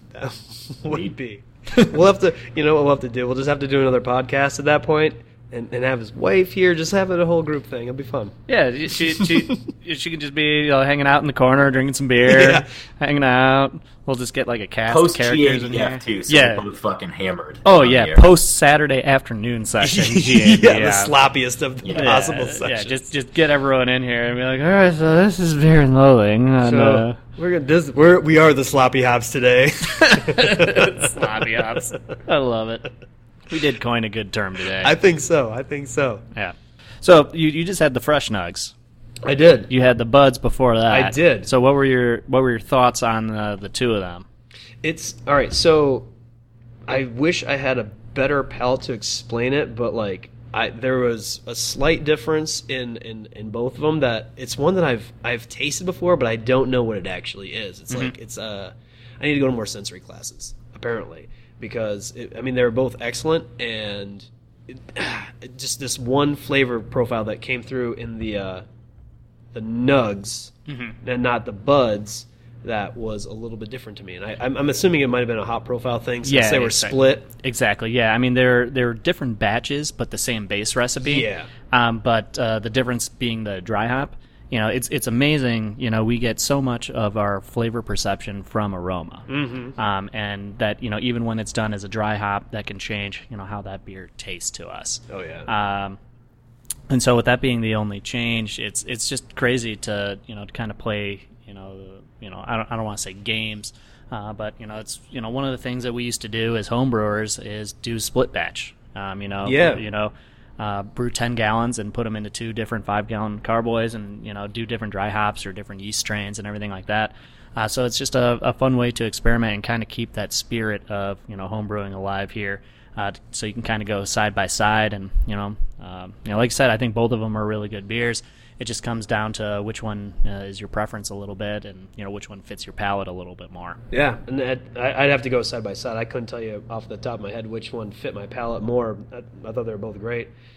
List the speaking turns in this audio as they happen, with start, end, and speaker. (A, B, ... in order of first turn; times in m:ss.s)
0:00.1-0:08.3 A
0:00.9-0:01.1 B
0:08.5-0:16.7 C
0:08.9-0:09.5 A
0:12.2-0:12.7 A
0:14.9-0:18.3 B
0:17.6-0:21.1 C
0:19.8-0:23.0 A
0:21.8-0:22.1 B
0:21.9-0:27.2 C
0:26.6-0:32.1 A
0:30.3-0:32.9 C
0:33.5-0:34.9 C
0:34.8-0:36.2 A
0:36.4-0:38.7 C
0:39.2-0:39.7 A
0:39.7-0:44.2 C
0:40.9-0:41.5 A
0:44.8-0:46.1 A
0:46.9-1:08.6 A
1:09.5-1:17.3 A
1:10.7-1:11.0 C
1:16.2-1:36.0 C
1:21.0-1:21.5 A
1:29.3-1:29.7 A
1:35.1-1:35.5 A
1:36.9-2:13.8 C
1:49.4-1:49.8 A
2:13.9-2:20.3 A